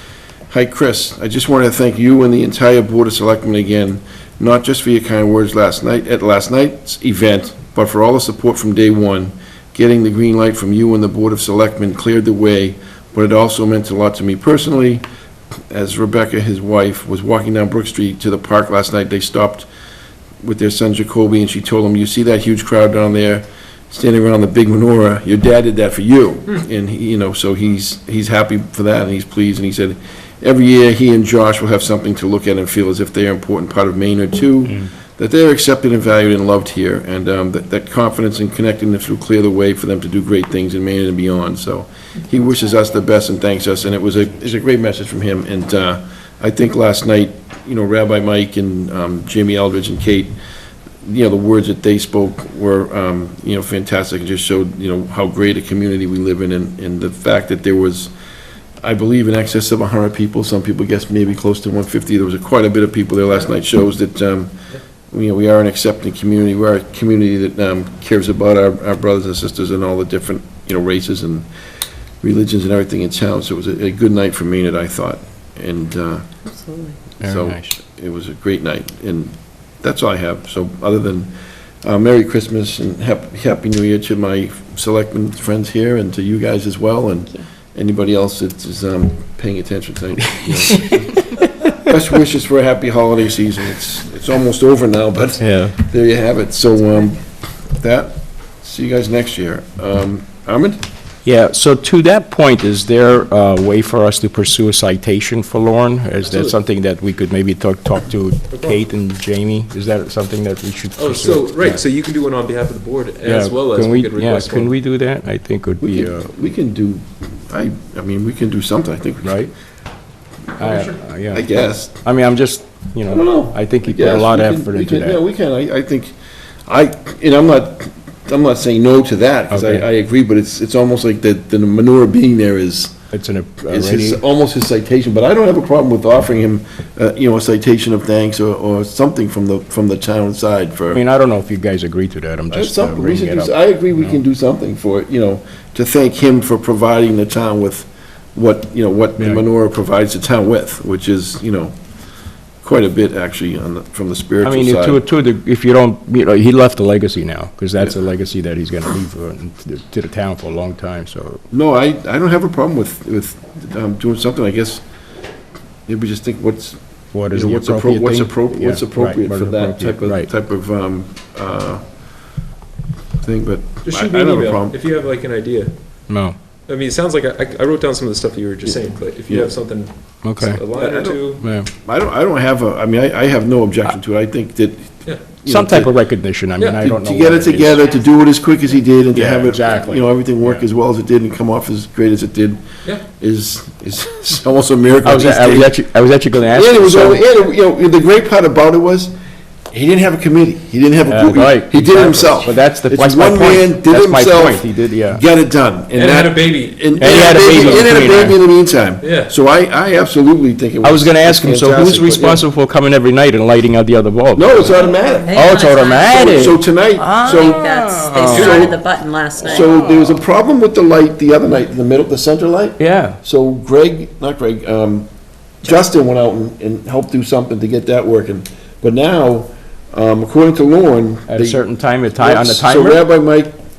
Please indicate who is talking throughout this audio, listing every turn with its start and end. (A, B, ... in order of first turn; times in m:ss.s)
0:00.5-0:15.0 A
0:15.7-0:19.7 A
0:20.4-0:50.3 A
0:51.0-0:58.1 A
0:58.8-1:04.6 A
1:05.1-1:11.5 A
1:12.2-1:16.3 A
1:16.4-1:17.0 B
1:17.2-1:21.3 A
1:17.2-1:17.7 C
1:21.8-1:37.2 A
1:35.4-1:35.7 C
1:37.7-1:40.8 A
1:41.2-1:51.8 C
1:46.2-1:46.6 D
1:48.5-1:48.8 D
1:51.0-1:54.7 D
1:53.2-1:56.3 C
1:55.8-1:59.5 A
1:59.2-1:59.5 C
2:00.6-2:05.2 C
2:00.6-2:02.0 A
2:03.1-2:06.1 A
2:06.6-2:13.0 A
2:09.5-2:09.8 C
2:13.1-2:14.2 C
2:13.7-2:21.0 A
2:20.9-2:24.2 C
2:22.5-2:31.7 A
2:29.2-2:29.4 C
2:32.6-2:35.0 A
2:34.4-2:41.4 C
2:41.5-2:44.8 A
2:45.9-2:46.8 A
2:47.1-2:50.3 C
2:47.3-2:51.8 A
2:53.2-2:54.8 A
2:53.8-2:55.7 D
2:56.1-2:56.4 C
2:56.7-3:01.4 D
3:00.2-3:00.6 C
3:00.7-3:01.2 A
3:01.4-3:01.7 C
3:01.8-3:05.9 A
3:05.4-3:07.9 C
3:06.6-3:06.8 D
3:06.8-3:15.8 A
3:09.1-3:10.6 C
3:15.0-3:17.2 C
3:16.5-3:19.1 A
3:19.7-3:32.4 A
3:21.0-3:25.2 C
3:25.9-3:28.0 D
3:27.0-3:28.4 C
3:29.0-3:29.3 D
3:30.8-3:38.6 C
3:34.3-3:35.5 A
3:34.8-3:36.6 B
3:36.1-3:38.8 A
3:37.2-3:39.7 B
3:38.3-3:38.7 D
3:39.4-3:45.1 A
3:39.6-3:40.2 C
3:42.8-3:43.2 C
3:45.6-3:51.6 A
3:51.3-3:53.0 C
3:52.2-3:53.5 A